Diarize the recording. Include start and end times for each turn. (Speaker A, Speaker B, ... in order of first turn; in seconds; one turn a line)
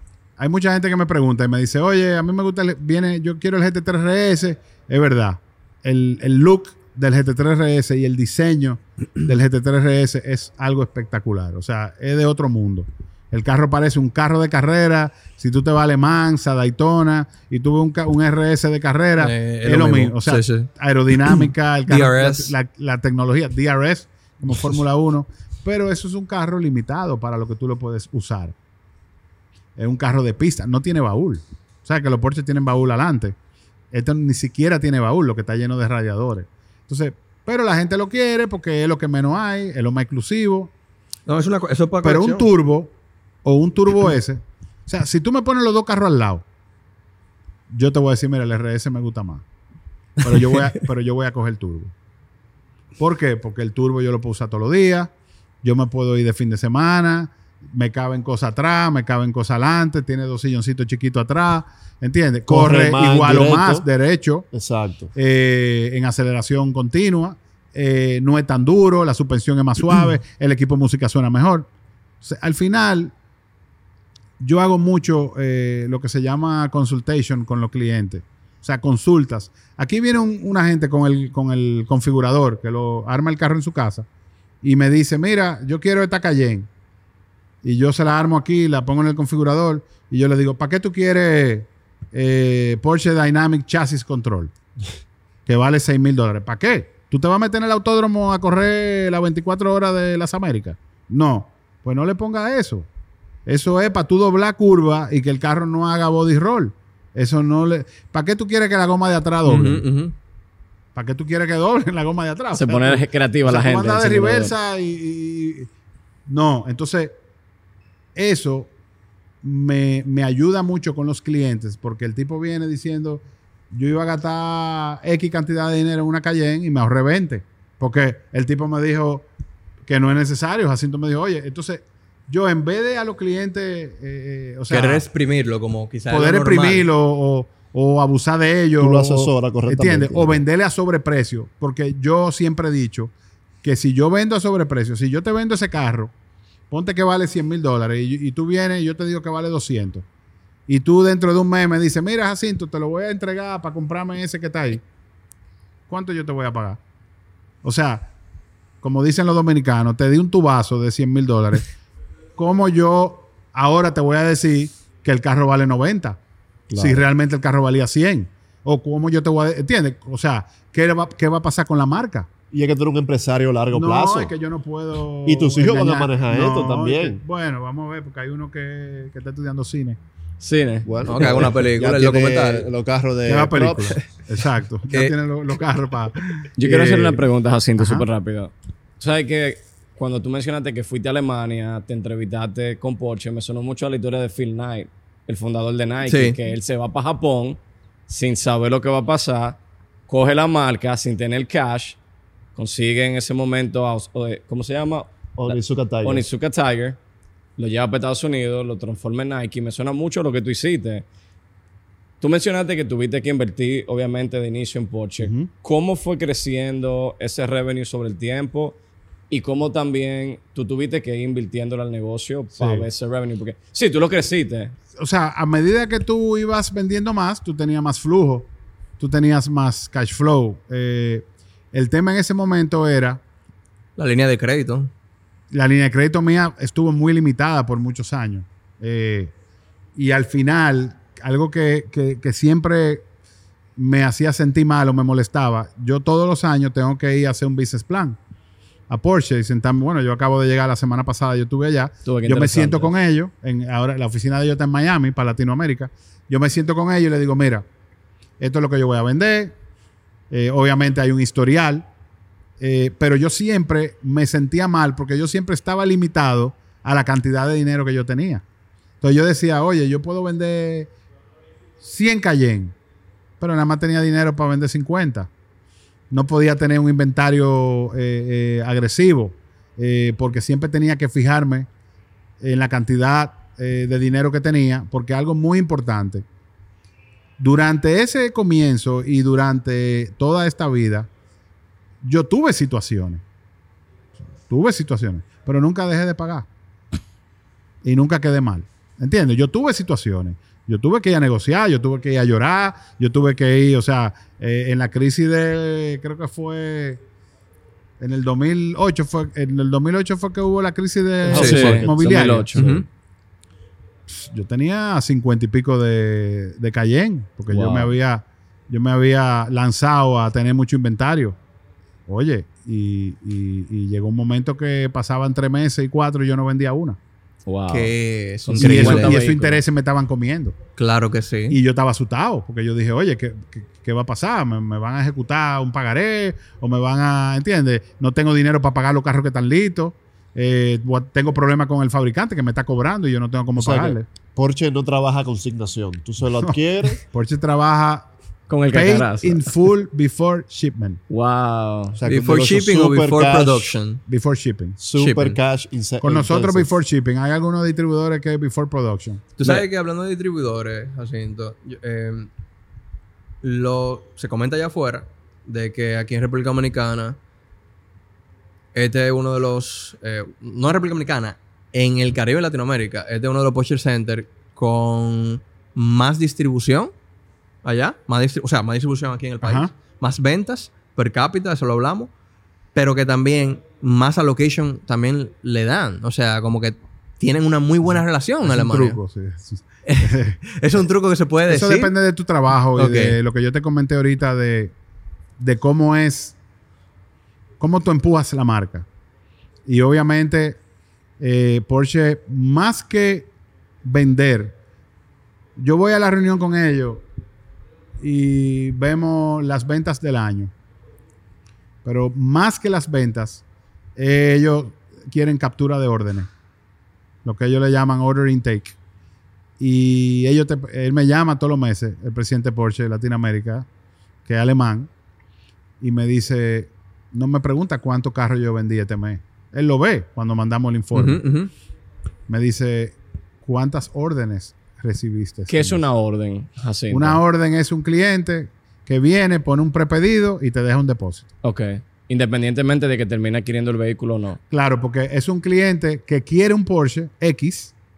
Speaker A: 0.4-28.5
Speaker B: 19.2-20.7
Speaker B: 21.2-22.5
Speaker A: 29.8-33.4
Speaker A: 33.9-40.7
Speaker B: 41.3-42.5
Speaker A: 42.0-42.9
Speaker A: 43.4-46.4
Speaker A: 47.7-49.4
Speaker A: 50.2-51.9
Speaker A: 53.0-55.1
Speaker A: 55.6-64.5
Speaker C: 62.5-63.8
Speaker C: 64.5-65.1
Speaker A: 65.1-71.7
Speaker A: 72.2-73.1
Speaker A: 74.4-84.0
Speaker A: 84.6-86.7
Speaker A: 87.6-94.5
Speaker A: 95.5-102.9
Speaker A: 103.5-109.8
Speaker B: 109.4-110.1
Speaker A: 110.9-115.7
Speaker D: 112.5-114.5
Speaker A: 116.3-117.1
Speaker A: 118.1-118.7
Speaker A: 119.4-129.2
Speaker A: 129.8-135.1
Speaker B: 134.7-136.9
Speaker A: 136.1-143.1
Speaker C: 138.8-140.4
Speaker A: 143.6-146.1
Speaker A: 146.7-150.0
Speaker A: 150.7-154.8
Speaker A: 155.9-156.8
Speaker A: 157.6-158.1
Speaker A: 158.8-161.7
Speaker A: 162.4-166.2
Speaker C: 166.7-167.0
Speaker A: 166.7-172.3
Speaker C: 172.5-174.3
Speaker A: 173.7-180.0
Speaker C: 175.2-177.2
Speaker D: 180.4-181.5
Speaker C: 180.8-184.0
Speaker B: 181.1-182.7
Speaker A: 183.2-187.2
Speaker D: 186.6-202.0
Speaker A: 187.8-188.1
Speaker B: 196.0-196.4
Speaker D: 202.5-207.0
Speaker C: 205.4-206.2
Speaker D: 207.6-211.0
Speaker D: 212.2-218.8
Speaker A: 215.2-215.5
Speaker D: 219.3-224.7
Speaker A: 222.5-222.9
Speaker A: 225.0-233.2
Speaker B: 234.0-234.9
Speaker A: 235.5-239.3
Speaker A: 239.9-243.0
Speaker A: 243.8-248.2
Speaker A: 248.9-257.6
Speaker D: 252.1-252.9
Speaker A: 258.4-259.5
Speaker A: 260.3-261.9
Speaker A: 262.6-268.4
Speaker A: 269.0-270.9
Speaker A: 271.8-272.7
Speaker A: 273.4-275.3
Speaker A: 276.1-281.7
Speaker A: 282.4-286.2
Speaker A: 287.4-291.1
Speaker A: 292.0-293.2
Speaker A: 294.5-296.5
Speaker A: 297.8-307.0
Speaker A: 308.0-312.6
Speaker D: 311.3-312.9
Speaker B: 311.3-311.9
Speaker B: 312.5-312.8
Speaker A: 314.1-321.4
Speaker D: 317.5-317.9
Speaker A: 322.1-327.0
Speaker D: 327.4-327.9
Speaker B: 327.7-329.2
Speaker D: 328.5-329.6
Speaker A: 328.6-330.6
Speaker B: 330.8-331.6
Speaker A: 331.5-344.1
Speaker C: 343.5-347.0
Speaker A: 346.4-348.1
Speaker D: 348.5-349.5
Speaker A: 348.7-351.0
Speaker D: 351.1-352.0
Speaker C: 351.9-353.8
Speaker B: 352.0-354.0
Speaker A: 354.1-354.8
Speaker C: 354.8-356.7
Speaker B: 355.0-355.4
Speaker A: 356.0-359.6
Speaker B: 359.4-362.3
Speaker B: 363.4-367.2
Speaker B: 368.7-376.9
Speaker B: 377.6-382.1
Speaker A: 379.4-379.7
Speaker B: 382.7-389.0
Speaker A: 387.8-390.5
Speaker B: 389.9-391.9
Speaker A: 391.5-394.7
Speaker B: 392.8-393.2
Speaker A: 395.4-396.4
Speaker A: 397.6-398.9
Speaker A: 399.6-400.6
Speaker A: 401.2-403.3
Speaker A: 403.8-404.5
Speaker A: 405.6-407.0
Speaker A: 408.0-410.5
Speaker A: 411.8-413.4
Speaker A: 413.9-416.3
Speaker A: 417.2-418.8
Speaker A: 419.6-423.7
Speaker A: 424.2-424.9
Speaker A: 425.8-431.2
Speaker B: 430.9-431.5
Speaker A: 432.3-435.8
Speaker D: 435.5-437.2
Speaker A: 436.9-441.3
Speaker D: 441.4-444.4
Speaker A: 444.5-447.7